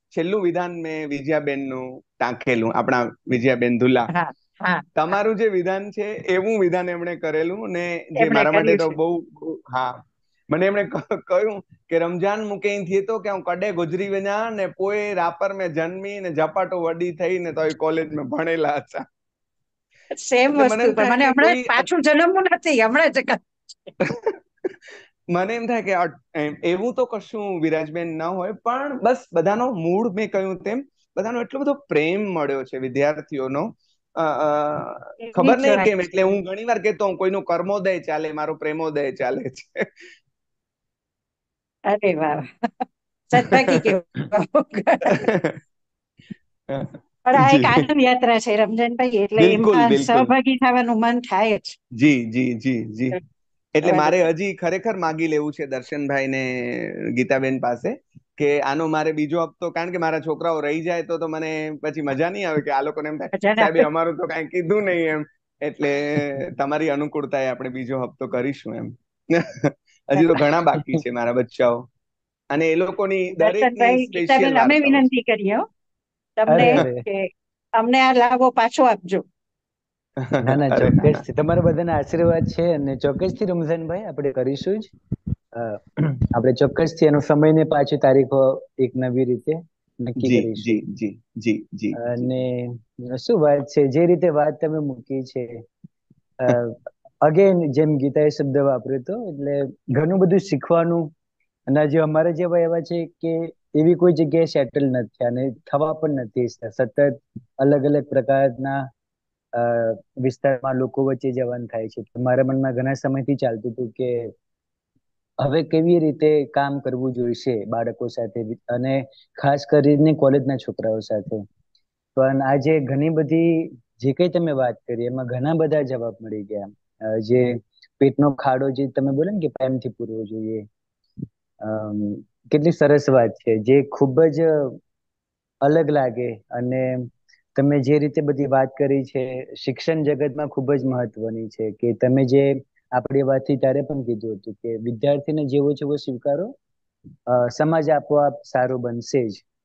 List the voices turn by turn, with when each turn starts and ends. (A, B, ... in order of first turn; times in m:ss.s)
0:00.1-0:04.1 A
0:04.1-0:05.1 B
0:05.0-0:19.0 A
0:08.2-0:09.0 B
0:20.1-0:23.9 B
0:20.5-0:21.8 A
0:24.1-0:24.3 A
0:25.3-0:40.0 A
0:35.2-0:36.1 B
0:41.9-0:45.3 B
0:45.0-0:45.5 A
0:46.7-0:47.9 A
0:47.2-0:51.8 B
0:49.4-0:50.3 A
0:52.0-0:53.2 A
0:53.8-1:11.8 A
0:53.8-0:54.2 B
1:03.3-1:03.9 B
1:10.2-1:10.6 B
1:12.5-1:15.1 A
1:13.3-1:15.6 B
1:16.4-1:19.2 B
1:16.5-1:17.0 C
1:20.2-1:21.2 A
1:20.4-1:24.9 C
1:25.5-1:30.8 C
1:30.2-1:32.2 A
1:32.0-1:35.6 C
1:36.4-1:41.1 C
1:41.7-1:48.9 C
1:49.5-1:54.3 C
1:55.4-2:01.4 C
2:02.2-2:10.7 C
2:11.6-2:14.8 C
2:15.6-2:26.6 C
2:27.3-2:29.4 C